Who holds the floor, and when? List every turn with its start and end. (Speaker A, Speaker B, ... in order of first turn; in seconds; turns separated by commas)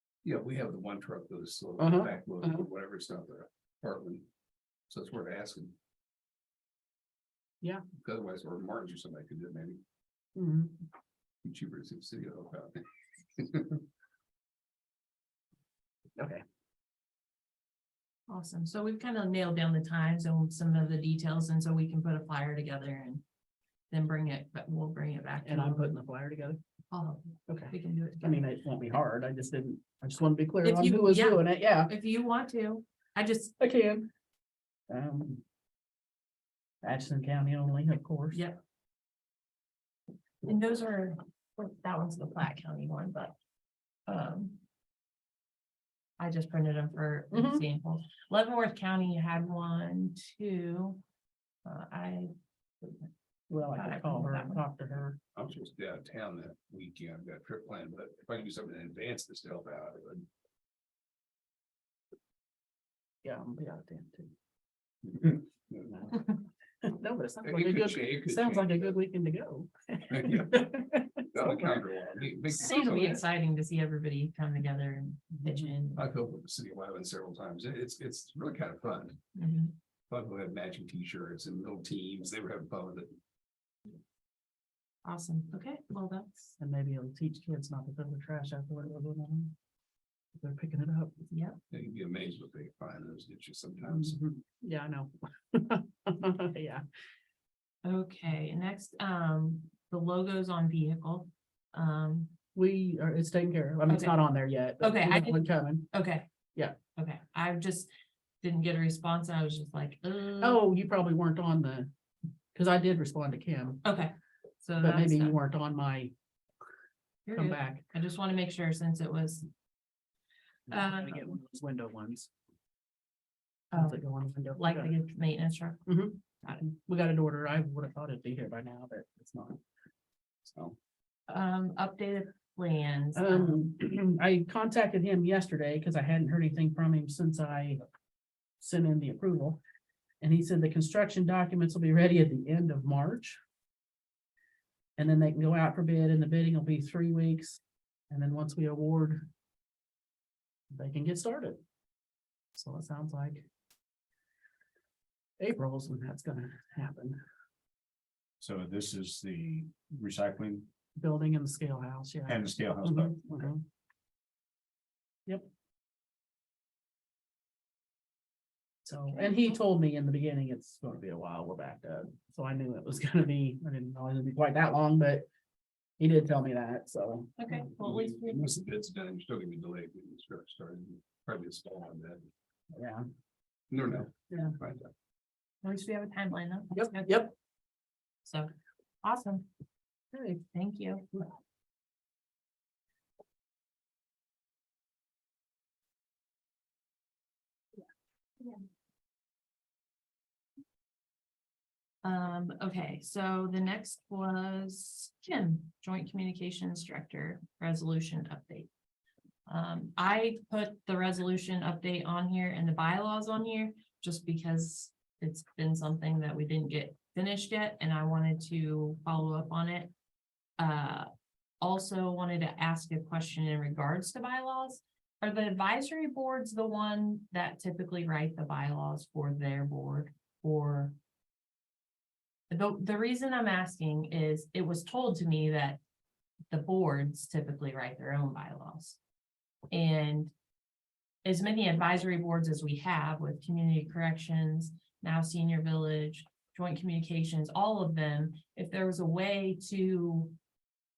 Speaker A: 0.2-4.3, Speaker B: 1.8-2.6, Speaker A: 4.9-5.8, Speaker A: 8.0-9.8, Speaker B: 10.4-10.8, Speaker A: 11.4-12.8, Speaker A: 13.4-13.8, Speaker B: 16.2-16.4, Speaker C: 18.3-23.2, Speaker C: 23.9-26.0, Speaker B: 25.4-26.6, Speaker C: 26.9-28.5, Speaker B: 27.5-31.9, Speaker C: 30.6-33.5, Speaker B: 33.6-34.1, Speaker B: 34.9-35.4, Speaker B: 36.8-38.4, Speaker C: 38.3-38.6, Speaker C: 40.4-43.4, Speaker C: 44.1-44.6, Speaker C: 46.2-51.0, Speaker B: 47.3-47.6, Speaker C: 51.6-53.1, Speaker B: 53.5-55.2, Speaker C: 53.6-54.6, Speaker A: 55.4-60.3, Speaker B: 63.2-64.3, Speaker A: 65.0-66.1, Speaker B: 65.9-66.3, Speaker B: 66.8-71.8, Speaker A: 67.4-69.0, Speaker A: 70.1-70.7, Speaker A: 71.3-73.2, Speaker C: 72.5-76.0, Speaker A: 76.0-79.2, Speaker C: 79.3-79.8, Speaker A: 80.1-83.2, Speaker C: 85.0-86.5, Speaker B: 86.6-89.5, Speaker B: 90.3-91.2, Speaker C: 91.3-91.6, Speaker A: 91.7-94.2, Speaker B: 93.9-96.8, Speaker C: 97.8-102.3, Speaker B: 102.5-105.9, Speaker C: 103.9-104.2, Speaker C: 104.8-106.3, Speaker C: 107.0-107.9, Speaker C: 108.4-110.6, Speaker B: 110.4-111.9, Speaker B: 112.5-113.8, Speaker C: 113.8-115.4, Speaker B: 114.8-116.1, Speaker C: 117.3-119.5, Speaker B: 117.3-117.8, Speaker C: 120.7-121.4, Speaker B: 120.7-122.3, Speaker C: 123.7-124.0, Speaker B: 123.7-124.9, Speaker C: 124.5-125.8, Speaker B: 125.9-129.6, Speaker B: 130.5-130.8, Speaker C: 131.3-133.7, Speaker B: 133.2-137.8, Speaker B: 138.6-139.6, Speaker B: 140.2-143.4, Speaker B: 145.0-149.3, Speaker B: 150.7-151.6, Speaker B: 152.5-153.5, Speaker B: 155.4-157.2, Speaker D: 158.4-160.7, Speaker B: 161.0-163.6, Speaker D: 162.3-163.5, Speaker B: 168.9-175.3, Speaker C: 169.1-169.4, Speaker B: 176.0-177.4, Speaker C: 177.4-178.4, Speaker A: 177.8-182.3, Speaker B: 182.8-183.0, Speaker A: 183.7-184.9, Speaker B: 184.3-184.6, Speaker C: 185.6-187.2, Speaker B: 186.8-187.3, Speaker C: 188.2-188.5, Speaker C: 189.0-189.5, Speaker C: 190.1-191.2, Speaker C: 202.0-208.7, Speaker C: 209.5-219.9, Speaker C: 220.6-221.1, Speaker C: 221.6-230.9, Speaker C: 232.5-235.8, Speaker C: 236.5-239.0, Speaker C: 239.7-240.3, Speaker C: 241.2-250.4